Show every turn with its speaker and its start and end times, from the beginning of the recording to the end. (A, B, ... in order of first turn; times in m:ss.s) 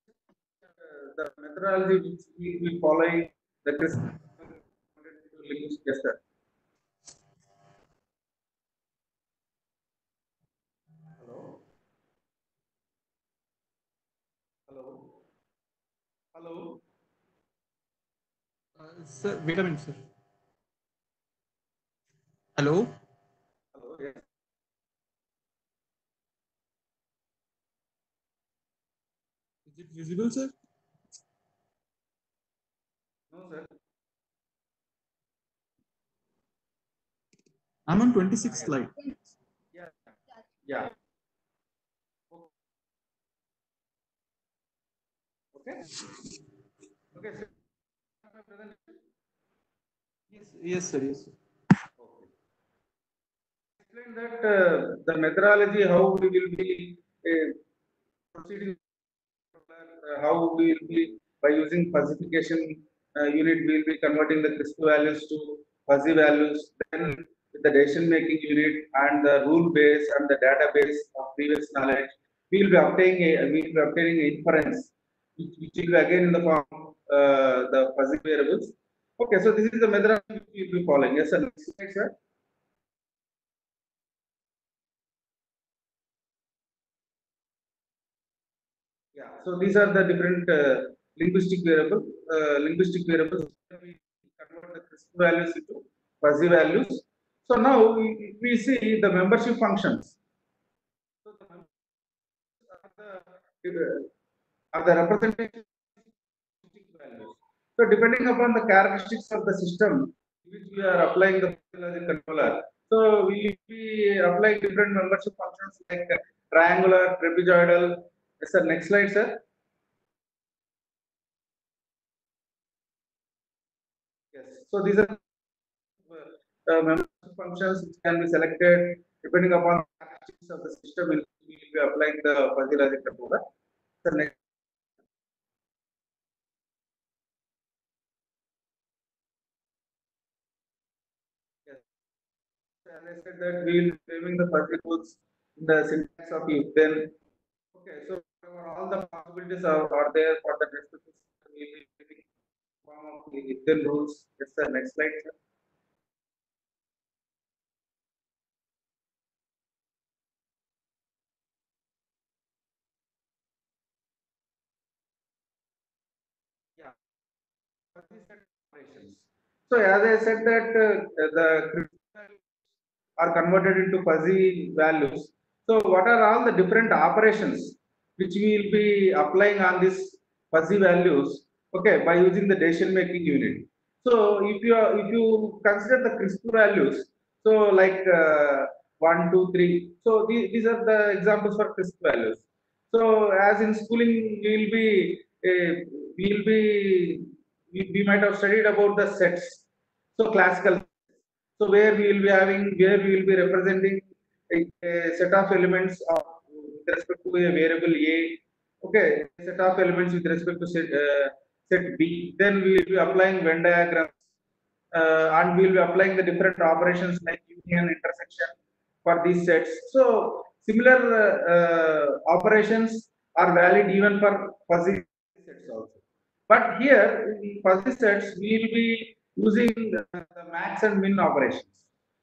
0:00.6-0:06.2 A
0:11.2-0:11.6 A
0:14.7-0:15.1 A
0:16.3-0:16.8 A
0:18.8-0:20.0 B
0:22.6-0:22.9 B
0:23.7-0:24.2 A
0:29.7-0:30.5 B
0:33.3-0:33.7 A
0:37.9-0:39.3 B
0:39.7-0:41.0 A
0:45.5-0:45.9 A
0:47.1-0:47.5 A
0:48.2-0:49.0 A
0:50.3-0:51.4 B
0:52.0-0:52.3 A
0:53.8-0:57.6 A
0:58.3-0:58.8 A
0:59.6-1:22.1 A
1:29.1-1:40.1 A
1:41.2-1:41.7 A
1:42.6-1:44.1 A
1:44.7-1:59.4 A
2:04.3-2:05.2 A
2:06.0-2:13.4 A
2:14.0-2:14.4 A
2:22.8-2:27.2 A
2:27.7-2:32.3 A
2:32.8-2:35.4 A
2:47.9-2:52.5 A
2:53.2-3:19.6 A
3:20.2-3:21.0 A
3:21.6-3:34.2 A
3:34.9-3:51.8 A